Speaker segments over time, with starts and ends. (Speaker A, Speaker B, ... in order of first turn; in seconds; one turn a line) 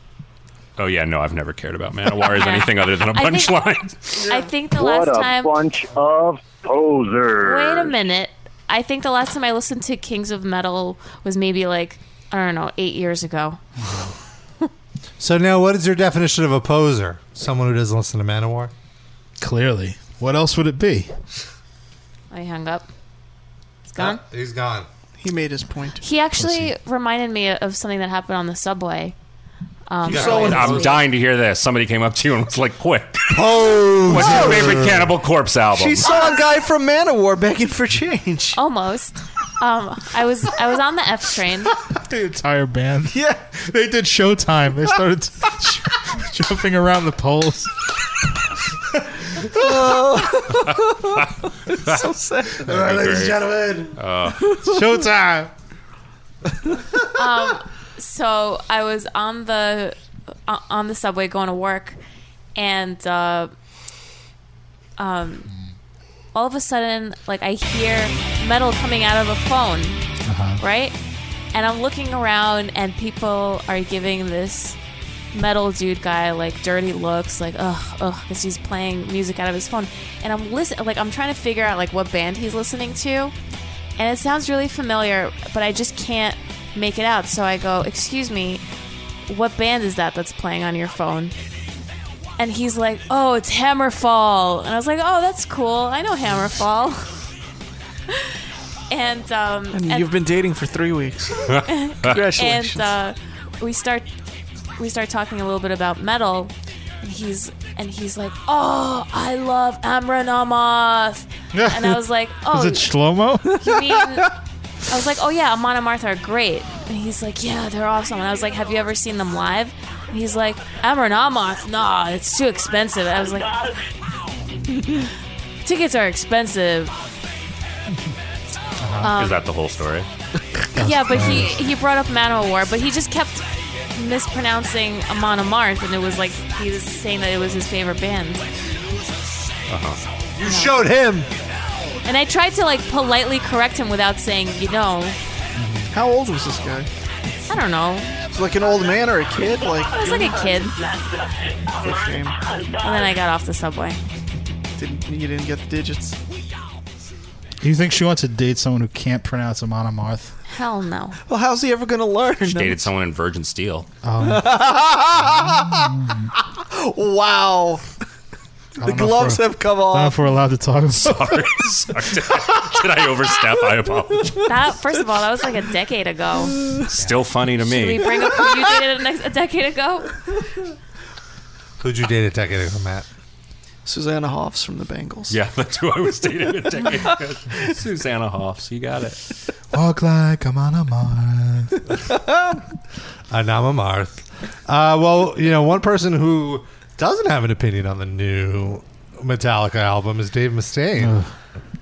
Speaker A: 0.8-4.3
Speaker B: 2.3-3.7
Speaker B: 4.2-5.6
Speaker C: 4.7-7.9
Speaker B: 7.4-13.6
Speaker D: 13.8-14.1
Speaker E: 15.2-18.7
Speaker D: 19.4-21.1
Speaker B: 22.3-22.9
Speaker B: 23.9-24.2
Speaker E: 24.0-24.9
Speaker F: 25.2-26.0
Speaker B: 26.0-29.1
Speaker D: 26.4-26.7
Speaker B: 29.9-31.0
Speaker E: 30.1-31.0
Speaker F: 30.1-30.6
Speaker A: 30.2-33.4
Speaker E: 33.3-35.1
Speaker A: 34.0-36.1
Speaker F: 34.2-34.8
Speaker F: 35.8-38.6
Speaker B: 36.1-36.4
Speaker B: 38.6-41.8
Speaker D: 41.9-47.8
Speaker F: 43.1-43.4
Speaker D: 48.9-49.7
Speaker F: 49.5-53.0
Speaker E: 52.6-54.0
Speaker A: 52.7-54.6
Speaker D: 54.6-55.5
Speaker B: 57.1-62.0
Speaker B: 62.6-63.5
Speaker B: 65.0-65.5
Speaker B: 66.3-70.0
Speaker D: 70.3-70.6
Speaker B: 70.6-71.0
Speaker B: 71.5-74.8
Speaker B: 75.3-83.3
Speaker B: 84.0-88.6
Speaker B: 89.3-91.3
Speaker B: 92.4-97.1
Speaker B: 98.1-98.4
Speaker B: 98.9-100.1
Speaker F: 99.7-102.9
Speaker A: 101.5-102.2
Speaker B: 101.5-104.1
Speaker B: 104.8-112.9
Speaker D: 111.5-112.0
Speaker D: 112.5-113.7
Speaker B: 113.6-114.3
Speaker B: 114.9-123.6
Speaker B: 125.6-126.9
Speaker D: 128.8-129.1
Speaker B: 129.0-129.4
Speaker A: 129.1-130.1
Speaker D: 130.8-131.6
Speaker B: 130.8-138.5
Speaker A: 139.7-140.0
Speaker E: 140.4-141.3
Speaker B: 140.4-140.7
Speaker B: 142.1-145.2
Speaker D: 145.6-145.9
Speaker F: 145.9-146.9
Speaker B: 147.5-148.1
Speaker F: 148.3-150.5
Speaker B: 149.9-150.8
Speaker F: 151.8-152.4
Speaker B: 152.8-154.0
Speaker F: 154.8-156.2
Speaker D: 157.6-160.3
Speaker B: 160.5-161.2
Speaker F: 161.3-162.8
Speaker A: 162.5-163.9
Speaker D: 164.0-164.6
Speaker F: 164.2-165.8
Speaker D: 165.1-166.3
Speaker F: 166.7-167.9
Speaker D: 168.8-171.5
Speaker F: 168.8-170.2
Speaker A: 170.9-174.4
Speaker B: 174.5-176.6
Speaker A: 176.9-178.2
Speaker D: 177.0-177.2
Speaker B: 177.6-180.1
Speaker E: 181.8-183.1
Speaker F: 183.9-185.3
Speaker A: 185.3-189.2
Speaker D: 189.7-191.7
Speaker E: 193.3-201.2
Speaker D: 201.0-201.3